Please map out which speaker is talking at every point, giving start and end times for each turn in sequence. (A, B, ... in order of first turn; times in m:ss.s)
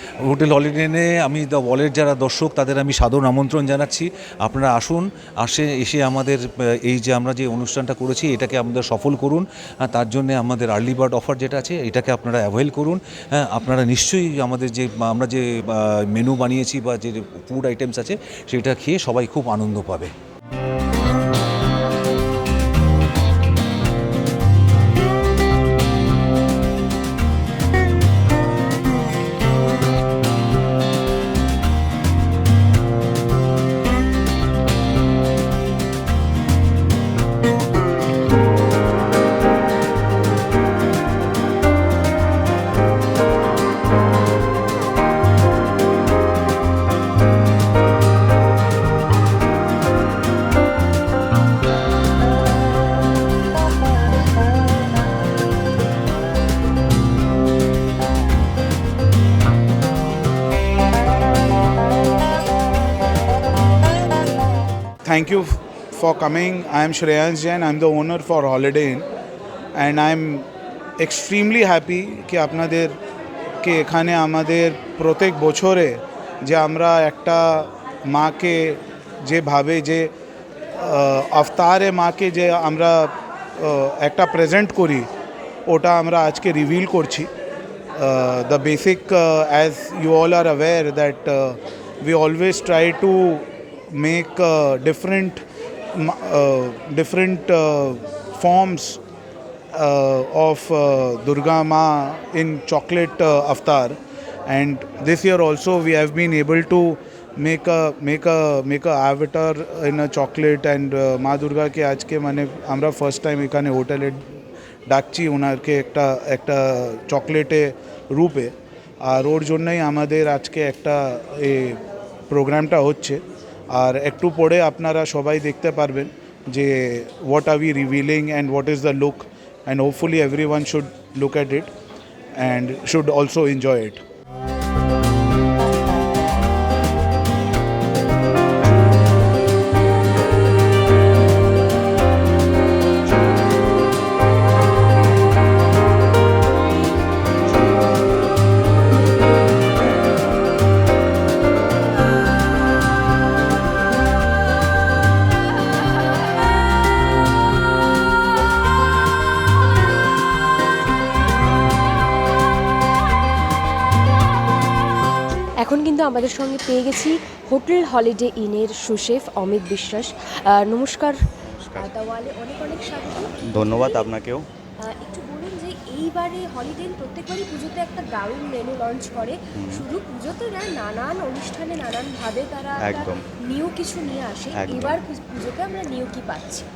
0:00.2-0:20.1 A
1:05.0-1:09.0 B
1:09.7-1:10.5 B
1:11.0-1:13.0 B
1:13.6-1:20.1 B
1:20.8-1:25.1 B
1:25.7-1:27.3 B
1:28.0-1:35.4 B
1:35.9-1:39.0 B
1:39.7-1:54.2 B
1:54.9-1:58.5 B
1:59.0-2:11.7 B
2:12.4-2:14.0 B
2:45.6-2:51.2 C
2:51.5-2:51.9 D
2:51.8-2:54.1 C
2:53.2-2:54.4 D
2:54.8-3:06.7 C
2:59.6-2:59.8 D
3:02.8-3:03.2 D
3:04.5-3:05.0 D